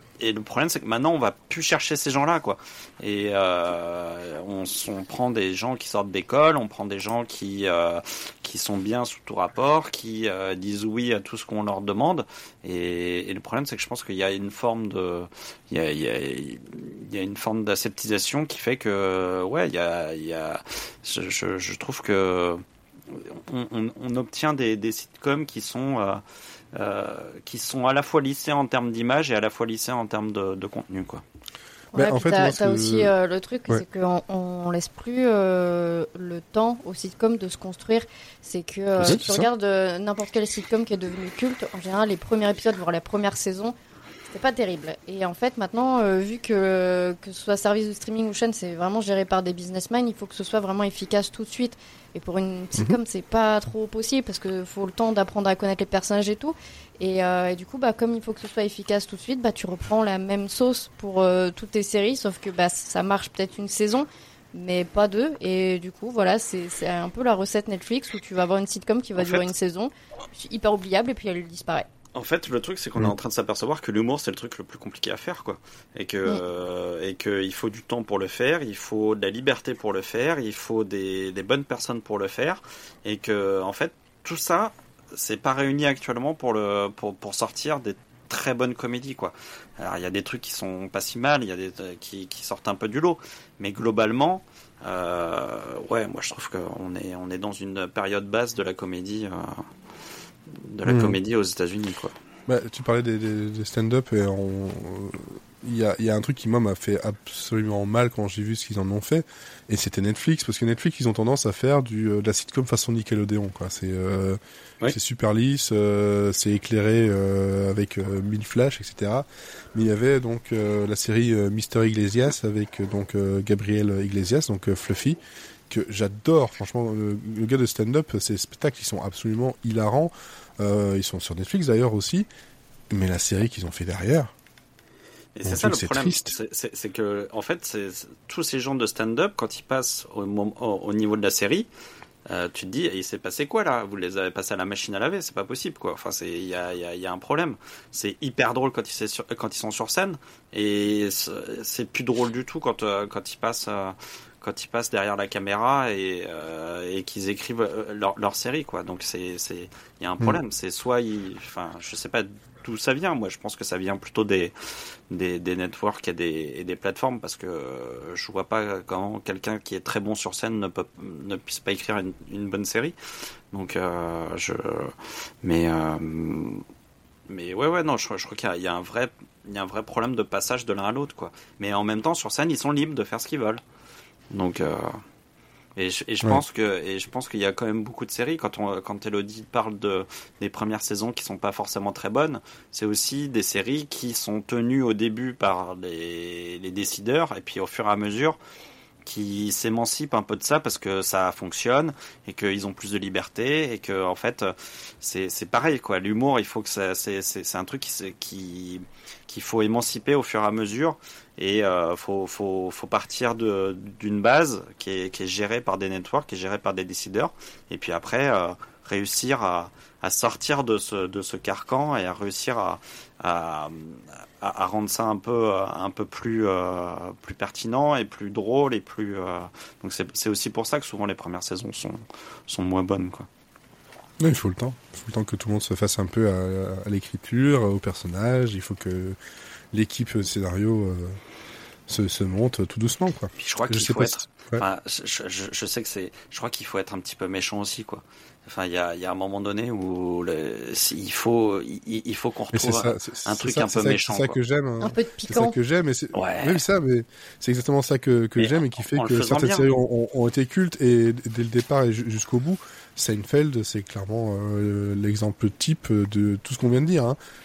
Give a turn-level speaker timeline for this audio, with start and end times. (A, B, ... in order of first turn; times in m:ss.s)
0:00.2-0:26.2 A
0:26.7-0:31.2 A
0:31.9-0:43.7 B
0:32.0-0:33.1 C
0:39.0-0:39.5 C
0:44.3-1:11.9 B
1:09.2-1:09.5 A
1:12.1-1:39.7 A
1:40.5-1:42.1 A
1:40.8-1:41.2 C
1:42.5-2:05.2 C
2:05.7-2:12.3 C
2:12.9-2:14.3 C
2:15.3-2:21.7 A
2:15.4-2:16.3 C
2:22.3-2:44.5 A
2:45.1-2:52.9 A
2:53.5-2:56.6 A
2:57.3-3:03.6 A
3:04.3-3:05.0 A
3:05.8-3:18.4 A
3:19.0-3:53.3 A
3:54.2-3:59.2 C
3:59.7-4:01.2 C
4:01.9-4:04.6 C
4:03.4-4:14.4 A
4:12.5-4:27.2 C
4:14.8-4:15.6 B
4:16.1-4:16.6 A
4:18.4-4:19.7 A